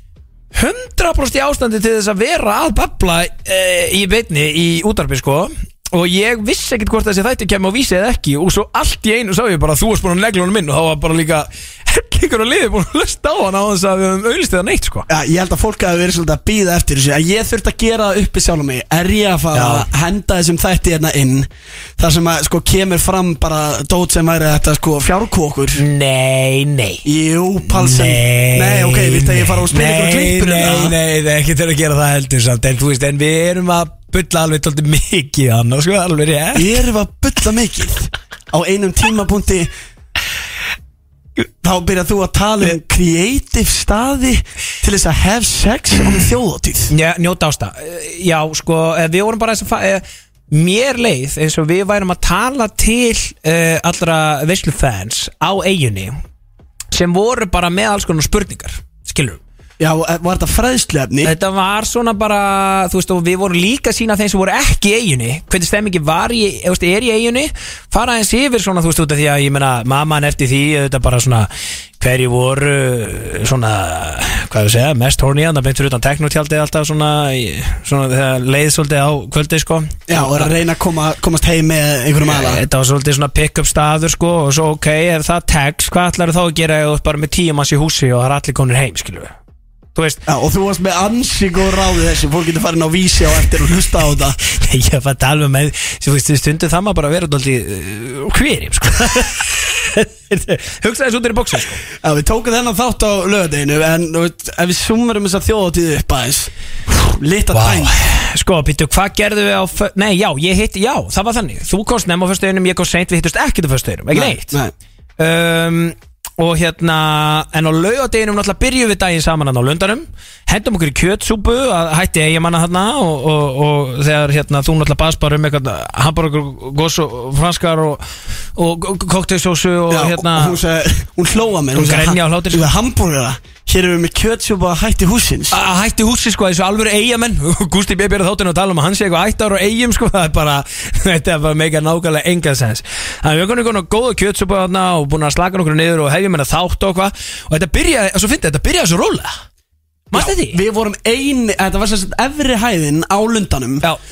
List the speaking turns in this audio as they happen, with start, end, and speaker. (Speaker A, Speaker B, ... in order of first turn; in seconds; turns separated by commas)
Speaker A: 0.5-15.1, Speaker B: 15.1-25.8, Speaker A: 19.5-19.9, Speaker A: 25.8-27.1, Speaker B: 27.1-31.0, Speaker A: 27.7-36.9, Speaker B: 36.5-39.7, Speaker B: 41.6-46.9, Speaker A: 46.9-56.2, Speaker A: 56.9-59.4, Speaker B: 59.8-61.3, Speaker A: 61.2-71.5, Speaker A: 72.0-80.5, Speaker B: 80.1-82.6, Speaker A: 82.3-89.3, Speaker A: 90.0-90.2, Speaker B: 90.3-94.4, Speaker A: 94.5-101.8, Speaker B: 102.0-108.0, Speaker A: 107.5-114.6, Speaker B: 114.1-114.7, Speaker A: 115.2-128.0, Speaker A: 128.6-130.6, Speaker B: 129.9-135.6, Speaker A: 131.7-132.7, Speaker A: 135.5-149.4, Speaker A: 150.1-150.6, Speaker B: 150.1-153.9